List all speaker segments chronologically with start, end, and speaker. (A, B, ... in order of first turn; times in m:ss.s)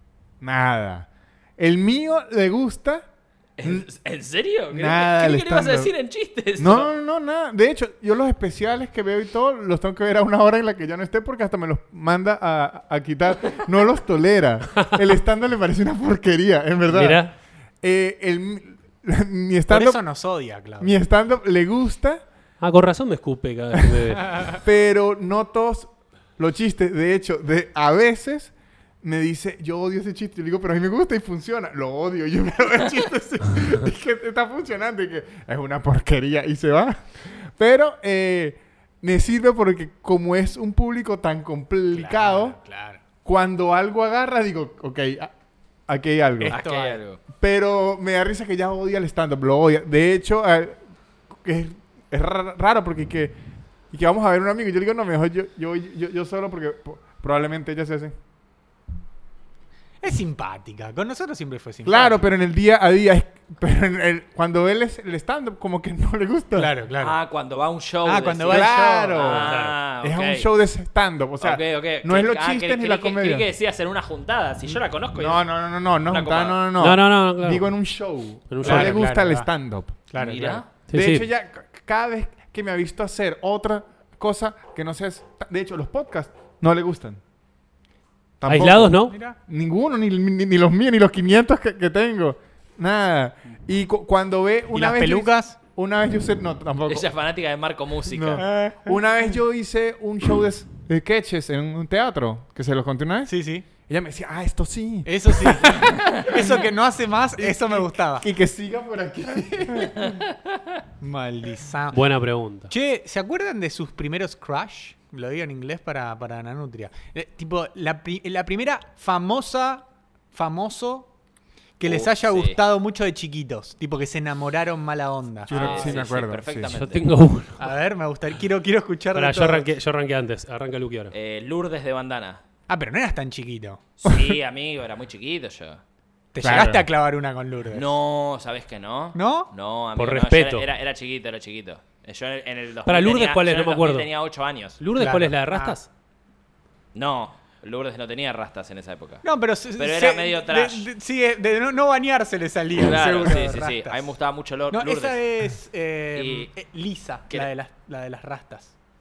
0:00.4-0:03.1 A
0:03.6-0:06.9 B
0:04.7-0:05.9 A
0:06.6-0:17.2 A
0:16.9-0:17.4 C
0:17.8-0:20.0 A
0:19.7-0:21.0 D
0:20.8-0:22.2 A
0:22.6-0:24.4 C
0:24.3-0:24.6 D
0:24.6-0:42.6 A
0:41.9-0:43.0 D
0:43.2-0:45.3 A
0:45.9-0:46.6 A
0:46.4-0:47.0 D
0:46.5-0:47.2 B
0:47.4-0:50.8 A
0:51.3-0:53.4 A
0:53.9-0:58.1 A
1:00.0-1:02.2 D
1:01.8-1:06.7 A
1:06.6-1:07.2 D
1:07.0-1:10.5 B
1:08.0-1:09.5 D
1:08.5-1:13.5 A
1:11.4-1:15.5 B
1:15.2-1:20.0 A
1:16.1-1:16.6 B
1:16.8-1:17.7 C
1:18.5-1:19.0 C
1:18.6-1:19.5 D
1:20.1-1:20.6 D
1:20.2-1:20.7 B
1:20.9-1:21.3 C
1:20.9-1:27.2 A
1:28.4-1:37.1 A
1:28.5-1:29.2 C
1:29.1-1:29.4 D
1:34.7-1:35.6 D
1:36.9-1:38.5 B
1:38.1-1:46.6 A
1:38.4-1:39.0 D
1:43.3-1:43.7 D
1:45.1-1:48.3 D
1:47.4-1:50.2 A
1:51.0-1:52.0 D
1:51.9-1:52.7 C
1:52.7-2:01.1 D
2:01.8-2:05.9 D
2:01.8-2:02.6 B
2:05.5-2:06.7 A
2:05.5-2:07.0 B
2:06.7-2:07.7 C
2:07.6-2:09.7 D
2:09.2-2:11.1 C
2:11.1-2:12.4 B
2:12.7-2:13.8 D
2:14.0-2:15.8 B
2:14.1-2:14.4 A
2:16.3-2:17.9 D
2:16.4-2:16.9 A
2:17.7-2:24.8 B
2:19.2-2:19.5 D
2:20.0-2:20.7 C
2:22.9-2:24.1 C
2:24.8-2:25.9 C
2:25.0-2:25.8 D
2:27.0-2:29.2 B
2:29.2-2:34.0 D
2:29.8-2:30.9 B
2:32.8-2:35.2 B
2:34.7-2:38.7 D
2:36.2-2:36.5 B